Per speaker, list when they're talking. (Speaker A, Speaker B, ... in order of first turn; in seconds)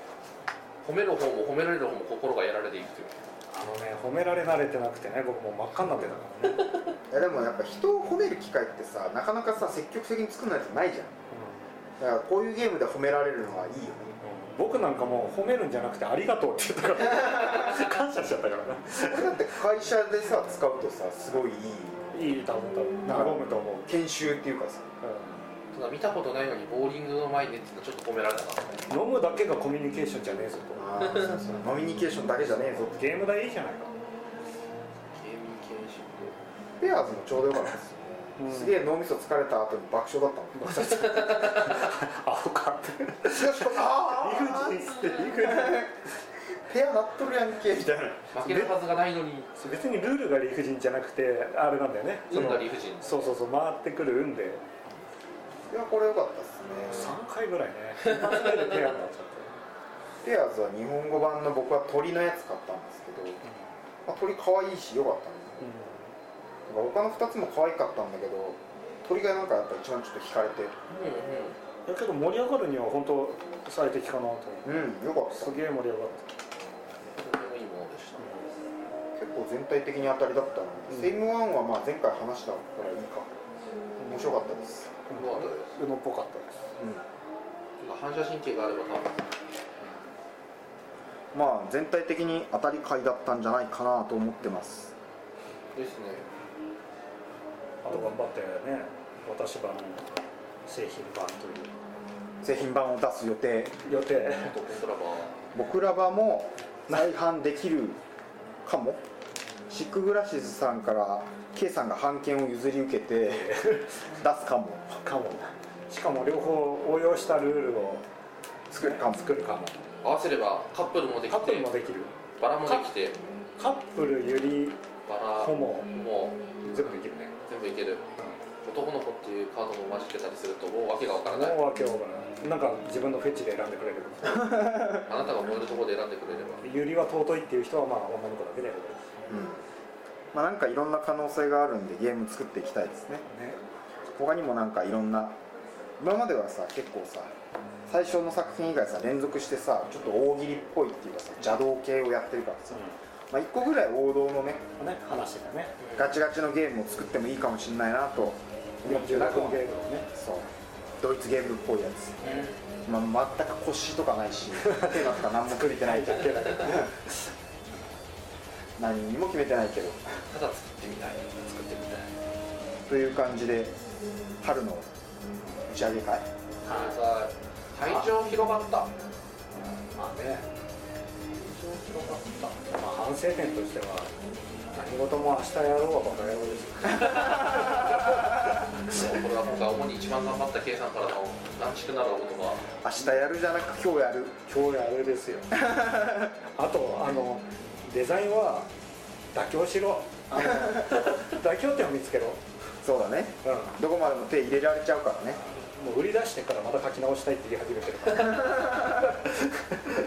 Speaker A: 0.8-3.2, 25.7-28.9, 31.0-31.4, 35.1-36.4, 40.7-41.9, 48.3-49.5, 52.3-53.4, 58.2-58.6, 70.9-71.6, 77.1-78.5, 85.1-85.7, 87.8-89.3, 95.7-96.3, 104.3-105.4, 120.0-121.7, 122.4-123.2, 125.1-126.6, 127.5-128.1, 128.6-131.6, 135.0-136.6, 155.8-156.2, 162.2-162.6, 170.3-171.4, 176.7-178.9, 187.3-187.9, 188.9-192.6
Speaker B: 3.5-6.7, 11.3-11.6, 14.2-19.4, 22.1-23.9, 25.0-25.4, 28.9-31.1, 32.4-33.9, 38.4-38.8, 40.5-45.9, 48.4-48.8, 49.5-54.6, 56.9-59.6, 65.6-66.1, 71.9-76.4, 78.2-78.5, 80.9-81.2, 85.1-86.6, 89.8-90.1, 97.8-100.1, 100.7-101.7, 103.7-104.7, 113.3-114.0, 115.0-118.0, 118.8-119.8, 121.3-122.1, 123.6-124.8, 125.4-125.9, 126.6-127.3, 131.2-134.8, 136.6-139.0, 143.3-143.6, 152.7-153.0, 154.8-155.8, 158.8-160.1, 164.6-167.2, 171.4-172.1, 176.7-177.0, 177.8-178.1, 179.9-180.5, 181.5-184.1, 184.7-189.2, 194.5-195.5, 196.5-198.7, 199.3-202.4, 203.4-203.8, 205.7-209.5
Speaker C: 7.1-11.1, 12.0-14.2, 19.0-22.4, 23.1-24.9, 30.8-33.1, 36.8-40.8, 43.3-45.9, 46.7-48.3, 55.7-57.2, 60.2-63.4, 64.0-65.7, 66.7-70.8, 74.6-75.6, 79.2-83.3, 84.0-85.0, 86.8-87.0, 91.3-94.9, 102.4-103.8, 105.5-108.0, 108.7-109.0, 109.7-113.6, 114.2-115.0, 118.7-119.6, 134.3-134.8, 139.3-139.6, 140.3-143.3, 144.1-145.4, 146.0-147.3, 147.9-154.7, 156.0-160.5, 161.0-166.9, 168.8-170.2, 172.9-173.8, 174.4-174.9, 175.7-176.3, 192.8-194.4, 195.5-196.3, 202.8-205.4, 208.2-209.2